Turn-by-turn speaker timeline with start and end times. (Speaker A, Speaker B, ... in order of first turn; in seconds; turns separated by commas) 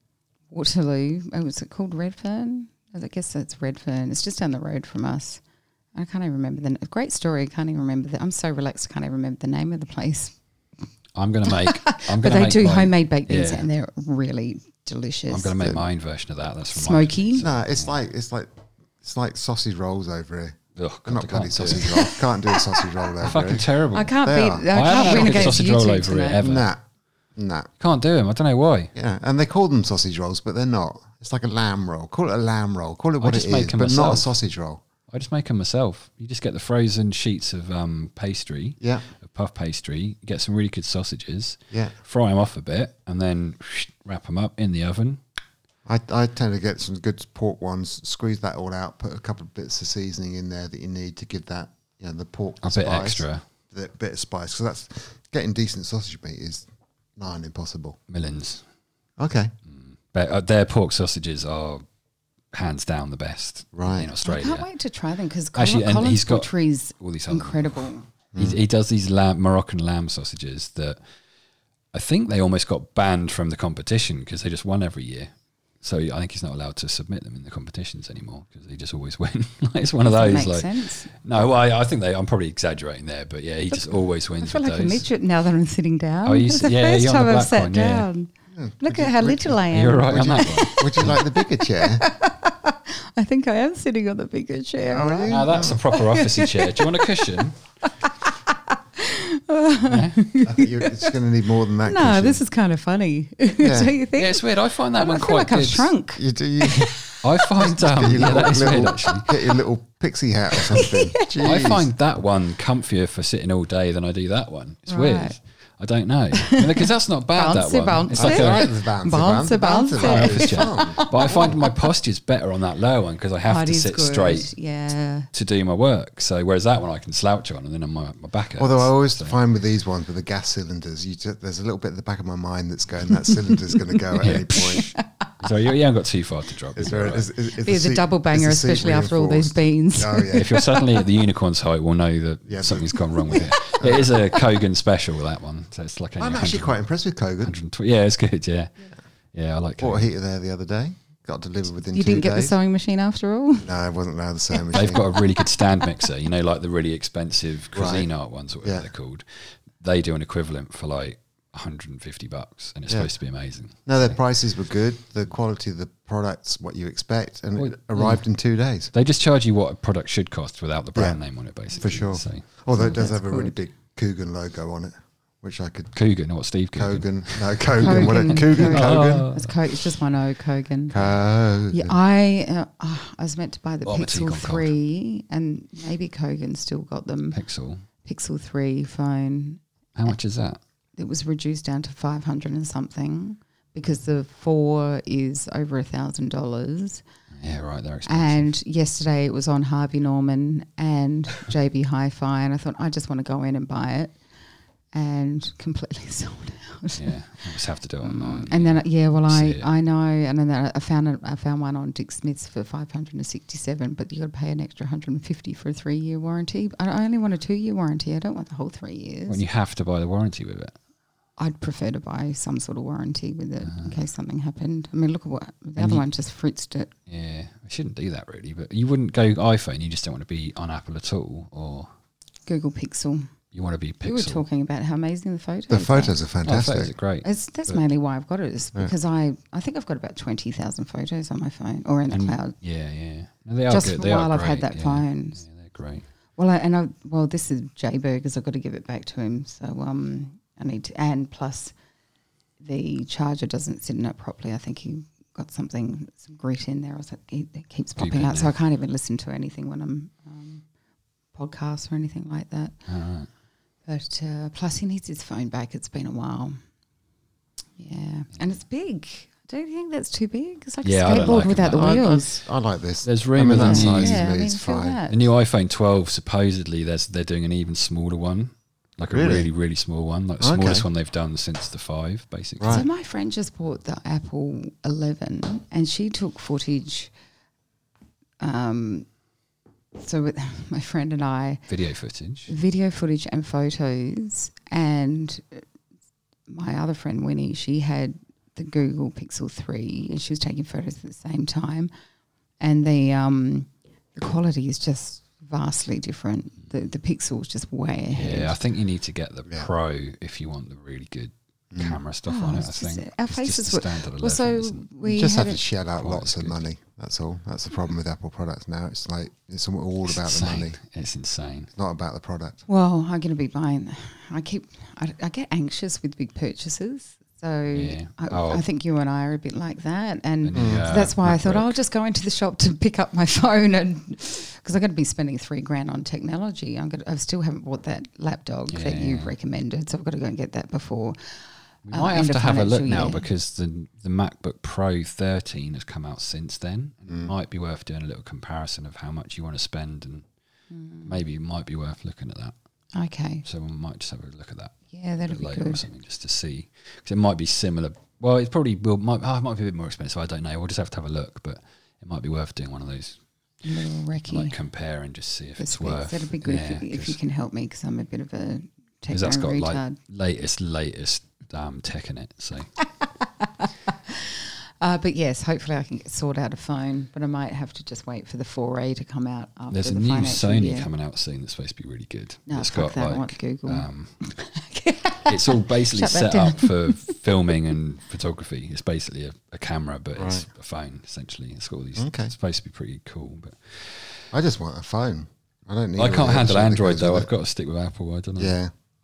Speaker A: 0.5-5.4, Speaker A: 5.9-10.3, Speaker B: 11.2-13.7, Speaker A: 11.4-15.6, Speaker B: 15.3-17.9, Speaker A: 16.7-17.4, Speaker C: 17.4-25.6, Speaker B: 20.8-22.0, Speaker A: 21.8-22.2, Speaker B: 23.2-24.2, Speaker A: 23.9-26.4, Speaker B: 24.7-26.7, Speaker C: 26.4-26.8, Speaker C: 27.4-27.7, Speaker B: 27.8-28.9, Speaker C: 28.9-34.8, Speaker B: 33.2-34.3, Speaker B: 35.1-45.2, Speaker C: 38.8-39.0, Speaker C: 45.9-58.0, Speaker B: 52.6-53.4, Speaker B: 58.1-58.6, Speaker C: 59.2-59.5, Speaker B: 59.6-61.8, Speaker B: 62.5-64.7, Speaker C: 63.7-64.1, Speaker A: 64.2-68.0, Speaker B: 65.5-71.0, Speaker C: 68.3-68.6, Speaker B: 71.9-85.0, Speaker A: 80.0-81.1, Speaker A: 83.7-88.3, Speaker B: 86.2-88.1, Speaker C: 88.5-92.1, Speaker A: 88.8-97.4, Speaker B: 89.7-91.2, Speaker C: 94.9-95.8, Speaker B: 95.3-97.6, Speaker A: 98.0-101.2, Speaker B: 99.9-100.2, Speaker C: 100.4-102.4, Speaker A: 101.8-107.2, Speaker C: 103.6-103.9, Speaker B: 104.1-105.9, Speaker C: 106.2-107.0, Speaker B: 107.2-109.3, Speaker C: 107.5-111.9, Speaker A: 110.7-111.5, Speaker B: 111.4-118.7, Speaker A: 114.9-115.3, Speaker A: 116.3-121.7, Speaker C: 118.1-121.5, Speaker B: 120.0-124.5, Speaker A: 123.5-125.3, Speaker B: 125.3-129.4, Speaker C: 128.6-134.9, Speaker B: 134.2-134.9, Speaker A: 134.3-135.0, Speaker B: 135.4-137.3, Speaker C: 136.7-140.6, Speaker A: 137.6-141.2, Speaker B: 140.3-146.8, Speaker C: 142.5-143.1, Speaker C: 143.7-144.2, Speaker C: 146.2-147.6, Speaker B: 147.4-148.7, Speaker B: 149.3-150.1, Speaker C: 149.8-152.6, Speaker A: 151.9-153.7, Speaker C: 153.6-155.0, Speaker A: 154.6-155.4, Speaker B: 154.7-164.2, Speaker C: 157.7-158.1, Speaker C: 158.6-158.9, Speaker C: 163.8-168.9, Speaker B: 167.6-168.2, Speaker B: 168.9-172.4, Speaker C: 171.7-175.9, Speaker A: 172.7-173.6, Speaker B: 175.9-179.5, Speaker C: 176.7-179.3, Speaker A: 177.8-181.1, Speaker C: 180.9-182.0, Speaker A: 181.7-187.4, Speaker B: 183.8-184.7, Speaker B: 187.3-187.8, Speaker A: 188.0-190.1, Speaker B: 189.9-190.6, Speaker A: 191.0-197.0, Speaker B: 197.3-198.5, Speaker A: 198.1-204.1, Speaker A: 204.9-207.5, Speaker B: 206.9-209.7, Speaker A: 208.0-219.4, Speaker B: 219.3-220.8, Speaker A: 221.4-226.9, Speaker B: 223.6-224.0, Speaker B: 225.8-226.0, Speaker B: 227.1-231.9, Speaker A: 232.5-233.3, Speaker B: 233.5-234.4, Speaker A: 234.0-236.2, Speaker C: 235.7-236.9, Speaker B: 236.4-237.8, Speaker A: 237.2-242.6, Speaker B: 242.1-246.0, Speaker A: 243.7-245.4, Speaker A: 246.4-251.7, Speaker A: 252.6-260.6, Speaker B: 258.0-258.5, Speaker A: 261.3-262.8, Speaker B: 262.9-263.3, Speaker A: 263.9-266.6, Speaker A: 267.8-272.4, Speaker B: 270.8-272.0, Speaker C: 271.6-275.0, Speaker B: 273.0-274.2, Speaker A: 273.5-275.3, Speaker B: 275.1-282.8, Speaker C: 279.1-279.5, Speaker C: 280.4-280.9, Speaker C: 282.6-282.9, Speaker A: 282.6-287.1, Speaker A: 288.4-289.1, Speaker A: 289.9-291.6, Speaker B: 291.7-292.5, Speaker A: 292.5-295.6, Speaker A: 296.5-301.9, Speaker A: 302.6-308.5, Speaker B: 308.1-314.9, Speaker C: 311.7-312.0, Speaker A: 312.2-315.6, Speaker C: 315.0-320.8, Speaker B: 315.9-316.6, Speaker B: 320.1-321.7, Speaker C: 321.8-322.6, Speaker A: 322.7-341.2, Speaker B: 327.7-328.6, Speaker B: 330.4-331.7, Speaker C: 330.5-330.9, Speaker B: 338.7-339.3, Speaker B: 341.9-350.2, Speaker A: 341.9-343.2, Speaker A: 350.7-351.1, Speaker B: 351.1-352.5, Speaker A: 352.9-353.4, Speaker B: 353.4-363.2, Speaker A: 354.9-355.8, Speaker A: 363.6-364.6, Speaker B: 364.3-367.2, Speaker A: 365.6-369.9, Speaker B: 369.1-372.7, Speaker A: 373.4-380.9, Speaker B: 379.7-384.2, Speaker A: 382.5-387.1, Speaker B: 385.2-394.2, Speaker C: 390.2-390.5, Speaker C: 392.0-392.3, Speaker C: 394.3-397.3, Speaker B: 396.0-398.6, Speaker C: 398.4-398.7